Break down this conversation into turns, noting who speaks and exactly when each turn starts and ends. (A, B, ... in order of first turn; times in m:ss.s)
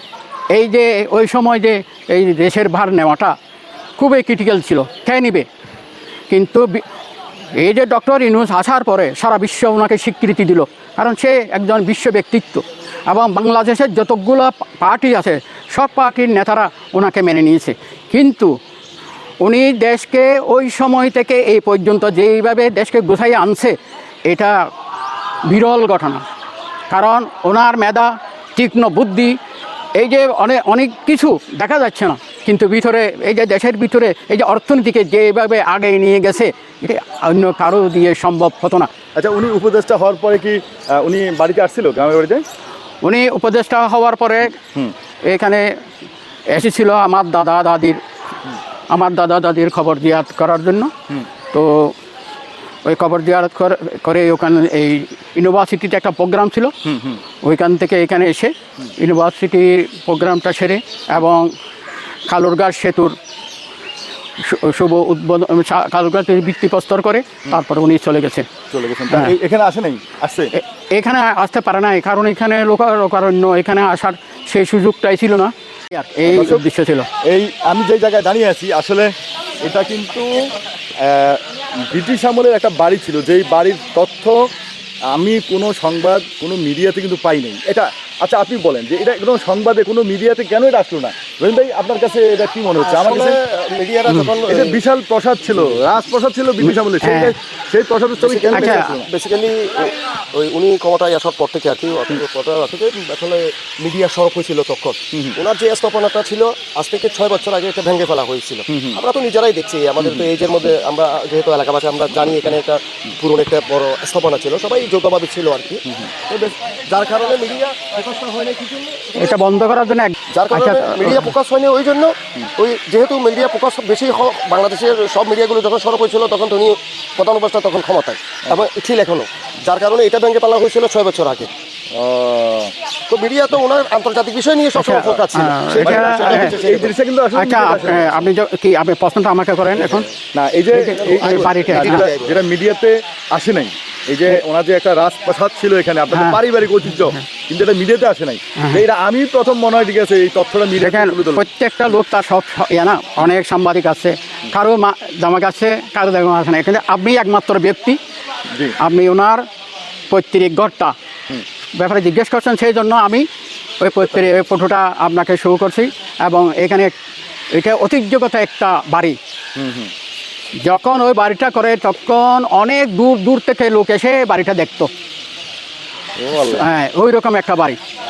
0:00.5-0:03.3 A
0:04.0-0:05.4 A
0:06.3-0:06.8 A
0:07.6-0:18.5 A
0:19.4-0:23.8 A
0:24.3-0:24.6 A
0:25.5-0:26.2 A
0:26.9-0:29.4 A
0:30.0-0:38.9 A
0:39.2-0:42.4 B
0:43.0-0:44.6 A
0:45.2-0:45.8 A
0:46.5-0:48.0 A
0:48.9-0:50.9 A
0:51.5-0:51.9 A
0:52.8-0:56.8 A
0:56.9-0:57.2 B
0:57.4-1:01.5 A
1:02.3-1:03.2 A
1:04.4-1:08.5 A
1:08.7-1:10.5 B
1:09.1-1:09.3 A
1:10.6-1:17.1 A
1:16.2-1:16.6 B
1:17.2-1:20.3 B
1:21.0-1:24.4 B
1:25.1-1:33.4 B
1:32.8-1:34.8 C
1:34.5-1:39.1 B
1:36.7-1:37.3 A
1:38.2-1:59.2 C
1:38.5-1:38.9 A
1:48.7-1:49.0 B
1:50.0-1:50.2 B
1:59.1-2:01.3 A
2:00.3-2:11.5 C
2:11.9-2:12.7 B
2:13.1-2:16.9 C
2:14.8-2:16.6 A
2:15.7-2:18.2 B
2:17.3-2:20.1 A
2:20.3-2:31.4 B
2:20.7-2:22.1 A
2:21.4-2:22.4 C
2:26.1-2:26.4 A
2:28.6-2:28.8 A
2:30.8-2:38.0 A
2:38.8-2:39.4 A
2:40.1-2:40.9 A
2:41.8-2:43.2 A
2:43.8-2:46.9 A
2:47.5-2:49.2 A
2:49.6-2:49.9 B
2:50.6-2:54.9 A
2:56.2-2:56.7 B
2:56.4-2:57.8 A